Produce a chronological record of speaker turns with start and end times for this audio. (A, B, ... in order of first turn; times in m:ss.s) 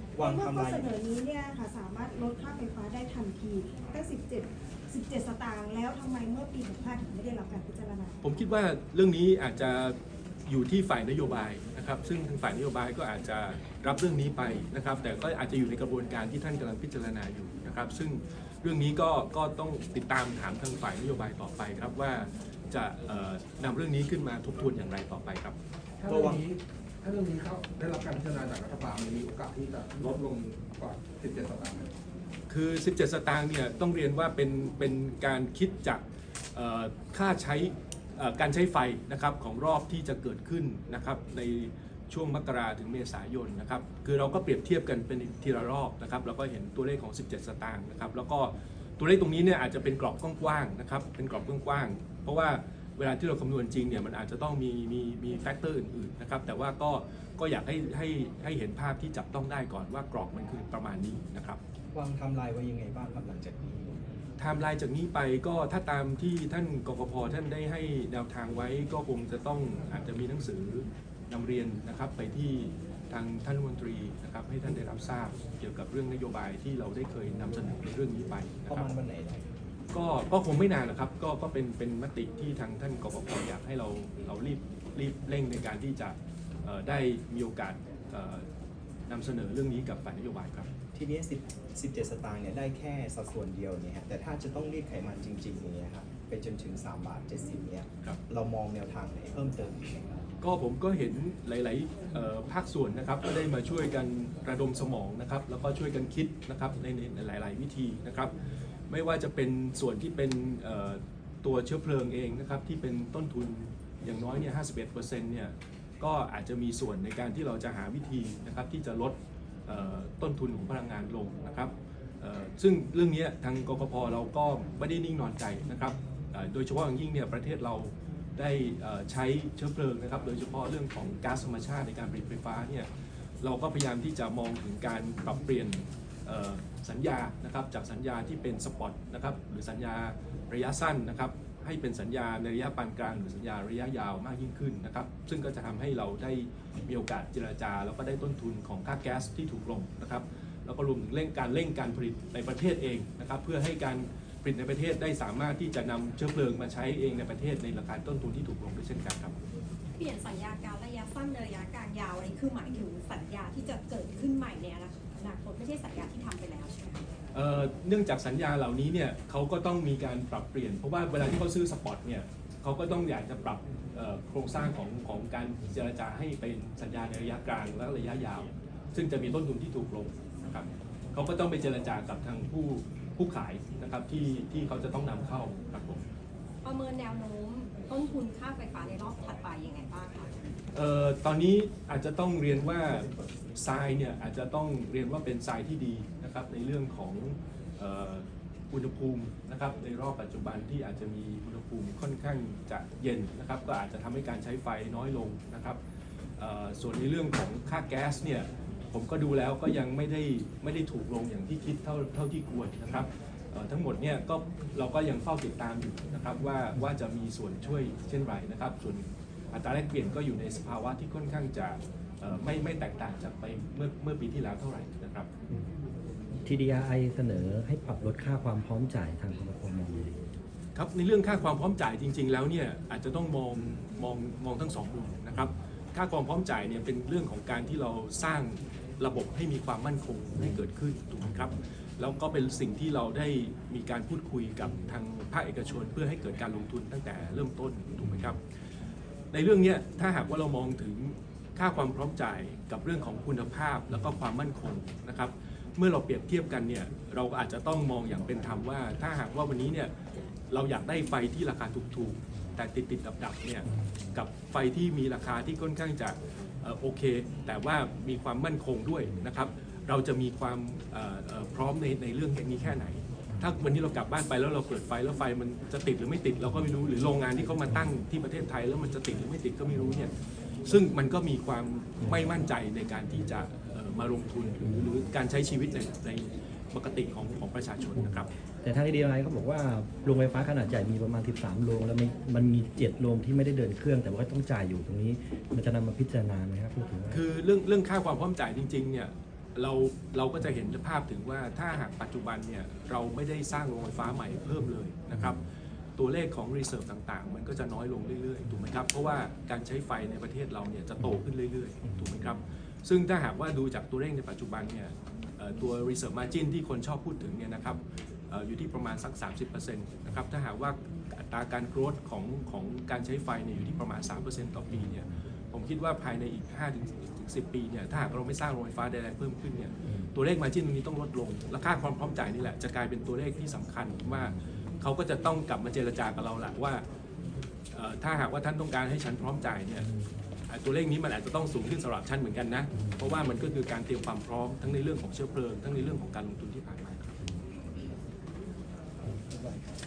0:00.1-0:00.9 A
0:00.2-0:08.2 B
0:08.2-0:25.6 C
0:26.0-0:31.9 D
0:26.1-0:26.4 A
0:32.5-0:36.0 C
0:36.5-1:01.6 C
1:01.9-1:04.0 A
1:04.4-1:18.9 C
1:18.7-1:19.4 A
1:19.9-1:28.4 C
1:29.1-1:30.7 C
1:30.9-1:40.2 A
1:40.4-1:48.3 C
1:48.9-2:12.9 C
2:13.4-2:39.3 C
2:40.0-2:47.0 E
2:47.3-3:06.0 C
3:06.6-3:10.3 E
3:10.7-3:25.8 C
3:26.4-3:45.3 C
3:46.4-3:50.1 F
3:50.7-4:08.4 C
4:09.3-4:19.9 C
4:20.5-4:40.1 C
4:23.7-4:24.1 F
4:40.6-4:48.3 C
4:42.0-4:42.4 F
4:48.0-4:57.2 F
4:57.1-5:05.4 C
5:06.0-5:36.8 C
5:37.7-5:39.9 C
5:40.5-5:47.2 C